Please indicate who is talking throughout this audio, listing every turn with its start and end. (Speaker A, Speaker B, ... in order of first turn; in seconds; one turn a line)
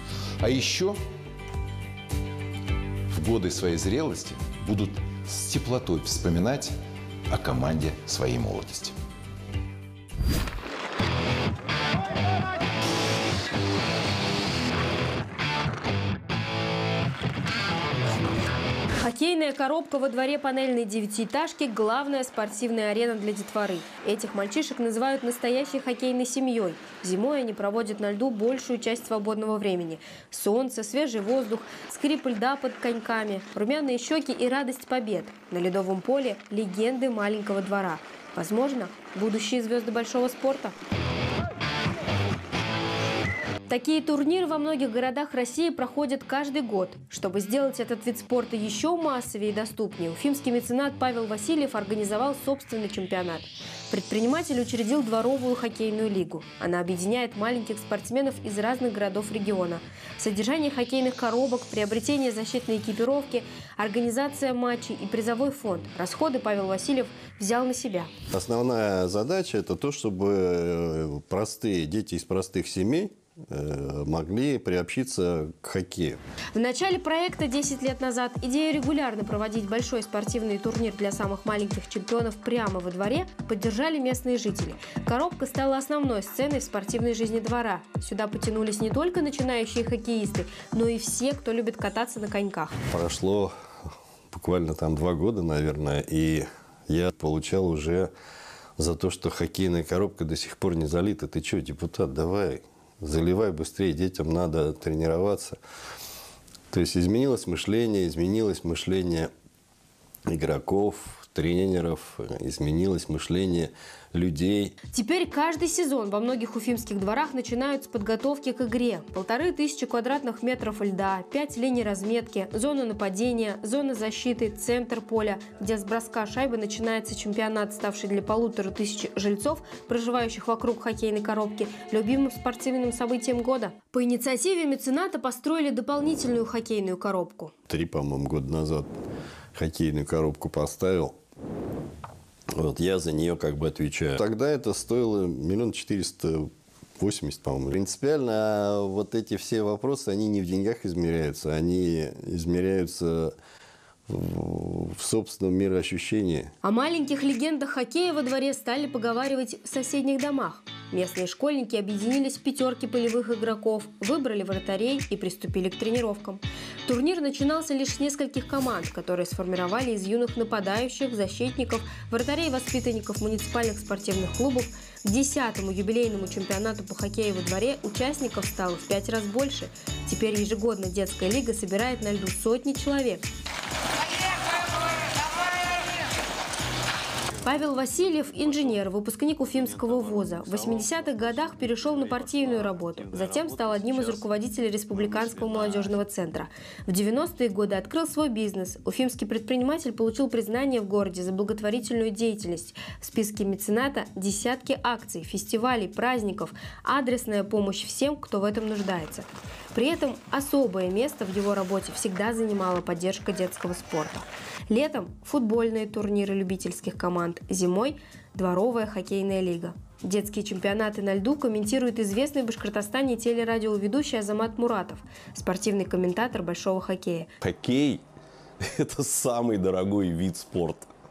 Speaker A: 0.4-1.0
Speaker A: 3.1-6.8
Speaker A: 7.3-9.0
Speaker B: 19.0-40.7
Speaker B: 43.7-68.1
Speaker C: 68.3-76.2
Speaker B: 76.5-92.8
Speaker C: 92.9-93.5
Speaker C: 94.3-98.1
Speaker C: 98.8-105.6
Speaker C: 106.7-109.3
Speaker C: 110.3-114.7
Speaker B: 114.9-137.5
Speaker C: 137.7-138.9
Speaker C: 139.5-141.1
Speaker C: 142.5-153.3
Speaker C: 154.1-156.5
Speaker B: 156.6-183.2
Speaker B: 187.4-227.3
Speaker D: 227.4-228.0
Speaker D: 228.6-230.9